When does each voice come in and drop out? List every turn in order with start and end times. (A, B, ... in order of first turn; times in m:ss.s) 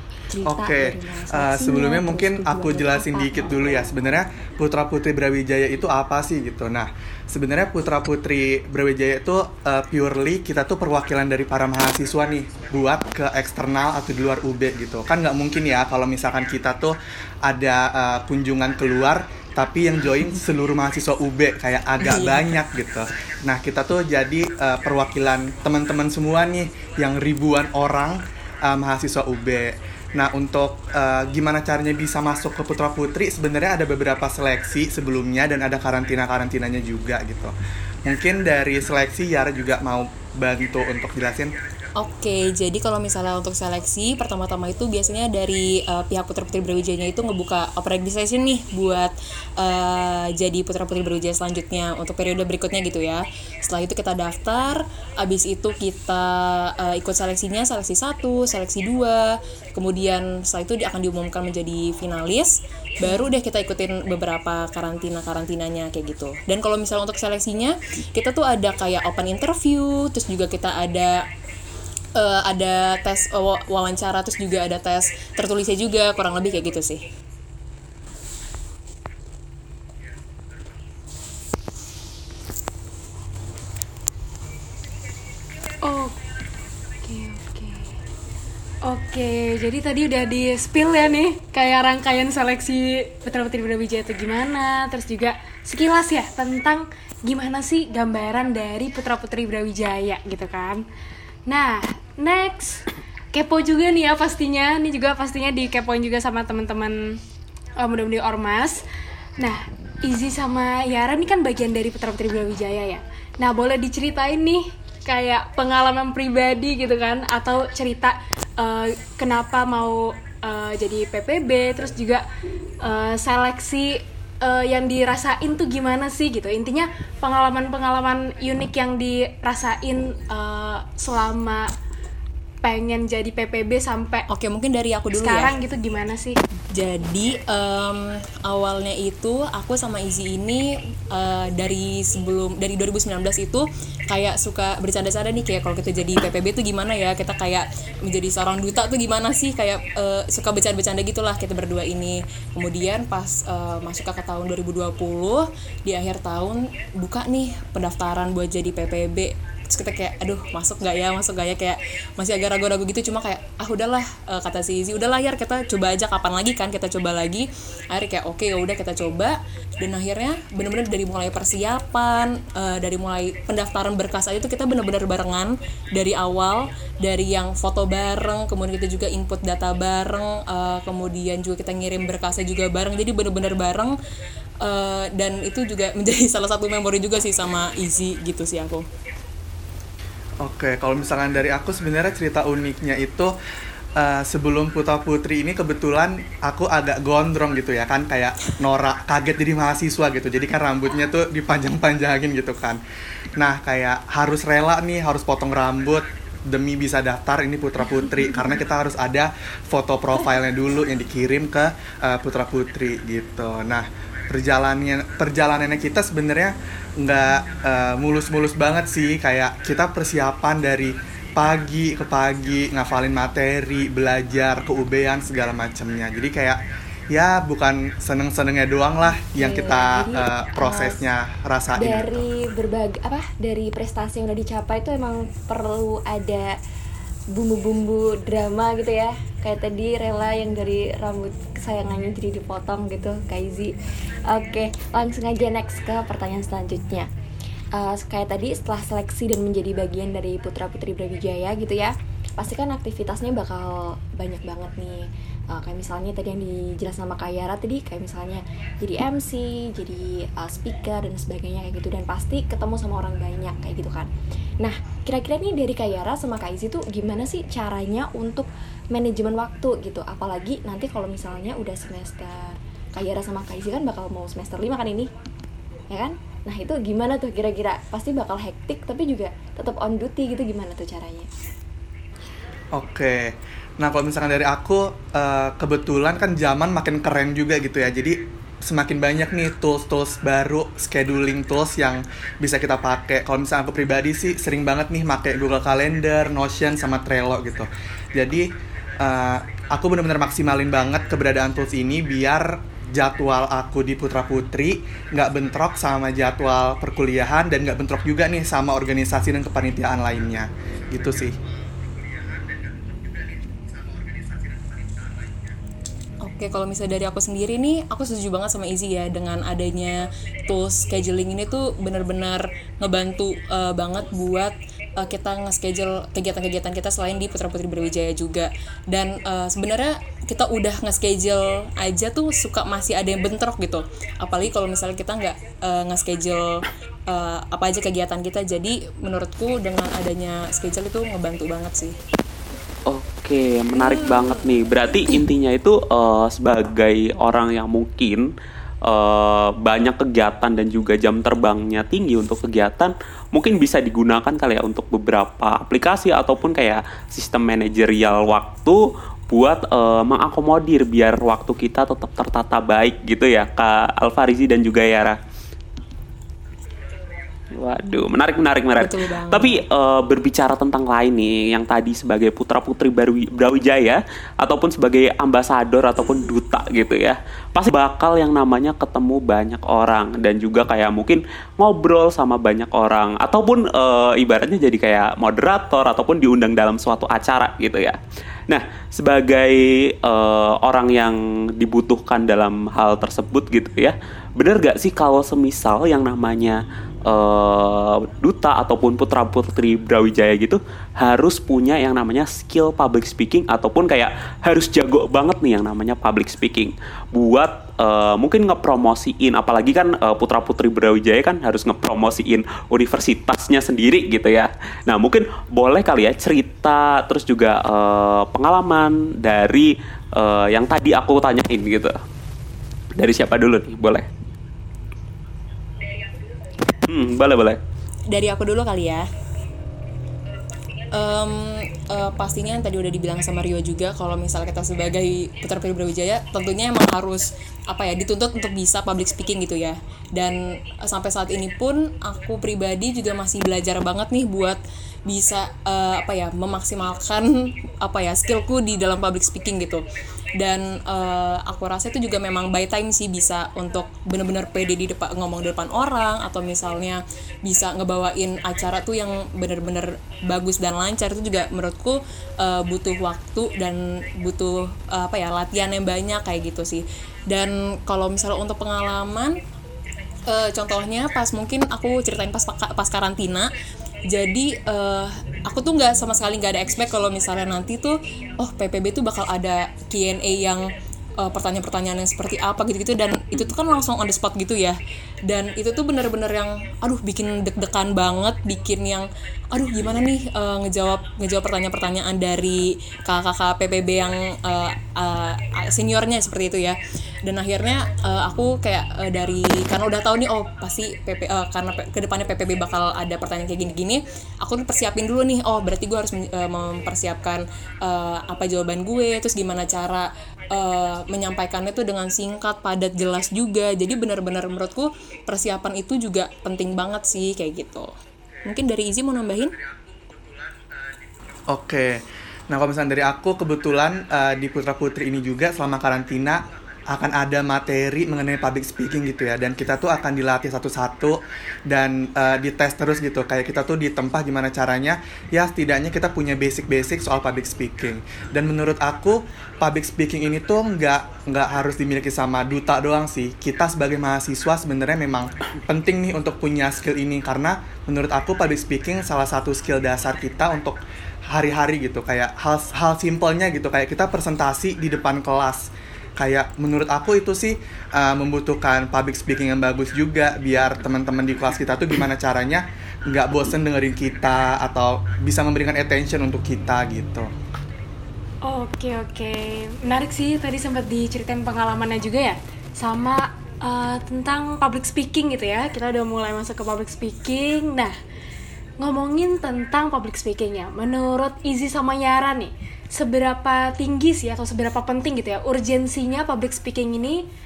0:00.3-0:03.9 A
0:00.4-0:37.5 B
0:22.0-0:22.5 C
0:38.0-0:41.5 B
0:42.0-1:11.3 C
1:03.0-1:03.3 A
1:12.2-1:17.0 C
1:25.8-1:26.2 D
1:27.0-1:28.0 D
1:28.8-1:40.8 D
1:41.5-1:47.2 D
1:47.8-1:48.8 D
1:49.4-2:02.2 D
2:02.8-2:11.7 D
2:12.6-2:14.2 D
2:14.3-2:15.5 C
2:15.1-2:16.4 D
2:16.7-3:04.0 C
3:04.6-3:08.8 C
3:10.4-3:13.3 B
3:14.0-3:22.8 B
3:23.4-3:46.6 B
3:47.1-3:52.2 B
3:49.4-3:51.0 A
3:51.8-3:56.6 A
3:57.3-4:07.1 A
4:07.7-4:35.1 A
4:35.9-4:41.3 A
4:42.7-5:11.4 B
5:16.2-5:42.0 C
5:42.9-5:48.3 E
5:48.8-6:05.2 E
6:07.5-7:01.9 E
6:08.8-6:09.6 C
7:02.9-7:04.0 E
7:06.8-7:07.6 E
7:08.1-7:09.0 C
7:10.9-7:29.8 C
7:30.4-7:49.4 C
7:50.3-7:53.5 C
7:54.1-8:00.7 C
8:01.2-8:37.9 C
8:38.4-8:39.5 C
8:41.5-9:27.3 B
9:28.4-9:37.9 D
9:38.8-9:47.2 D